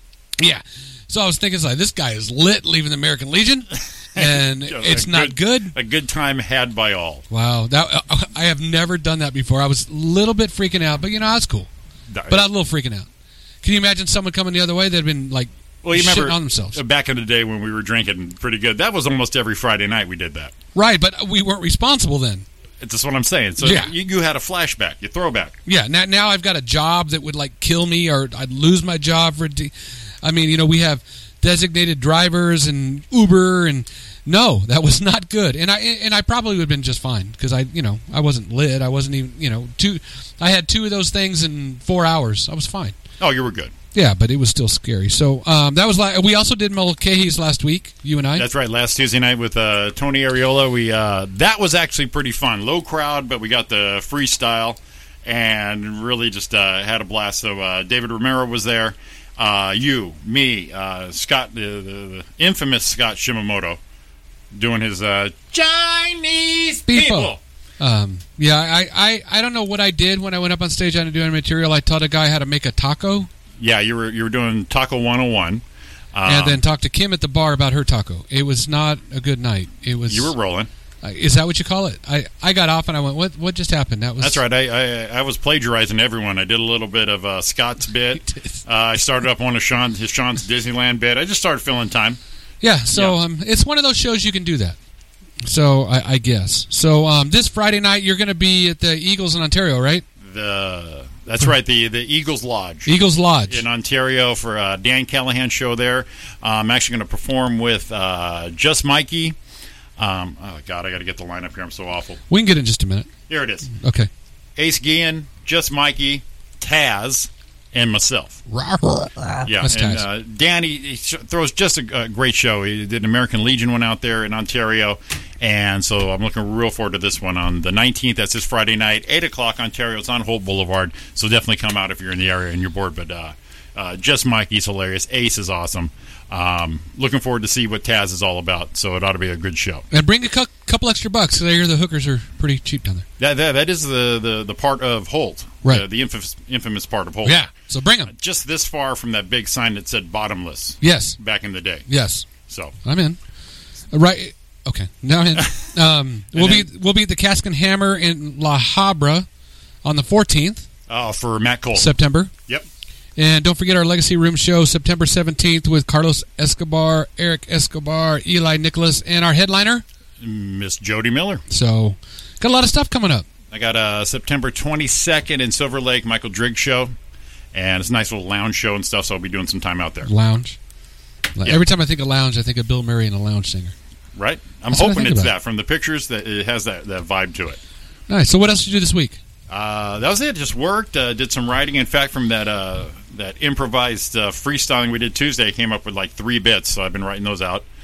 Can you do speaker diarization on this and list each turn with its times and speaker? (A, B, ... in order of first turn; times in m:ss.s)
0:00.4-0:05.7 A
0:04.2-0:07.2 B
0:07.3-0:11.7 A
0:12.1-0:12.4 B
0:12.3-0:13.1 A
0:13.6-0:16.8 A
0:15.8-0:20.5 B
0:20.7-0:22.4 A
0:22.8-0:25.5 B
0:23.6-0:23.9 A
0:25.7-0:29.7 A
0:30.2-0:43.0 A
0:43.2-0:43.7 B
0:43.9-0:48.4 A
0:48.4-1:03.8 B
1:04.5-1:07.4 B
1:06.9-1:13.3 A
1:13.6-1:15.6 B
1:16.1-1:16.6 B
1:16.2-1:20.3 A
1:20.1-1:20.7 B
1:21.0-1:24.4 A
1:24.2-1:32.2 B
1:28.2-1:28.6 A
1:32.6-1:34.8 A
1:35.4-1:40.0 A
1:40.2-1:42.9 B
1:42.8-1:43.6 A
1:43.5-1:49.4 B
1:50.0-1:52.2 B
1:52.3-1:53.1 A
1:53.3-1:53.7 B
1:53.7-1:54.1 A
1:54.6-1:58.4 B
1:58.5-2:00.0 A
1:59.4-2:19.8 B
2:19.9-2:23.0 A
2:23.2-2:27.5 B
2:27.2-2:28.1 A
2:28.1-2:31.9 B
2:30.8-2:31.2 A
2:31.9-2:32.2 A
2:32.5-2:32.7 B
2:32.8-2:33.2 A
2:33.9-2:39.2 A
2:36.3-2:36.7 B
2:39.8-2:40.6 A
2:40.9-2:41.9 B
2:41.7-2:42.3 A
2:43.2-2:49.8 A
2:50.2-2:51.4 B
2:51.5-2:53.2 A
2:53.5-2:56.9 B
2:57.5-3:00.1 B
3:00.0-3:00.6 A
3:01.4-3:03.7 A
3:04.2-3:07.6 B
3:04.7-3:05.3 A
3:08.1-3:09.2 A
3:09.5-3:17.6 B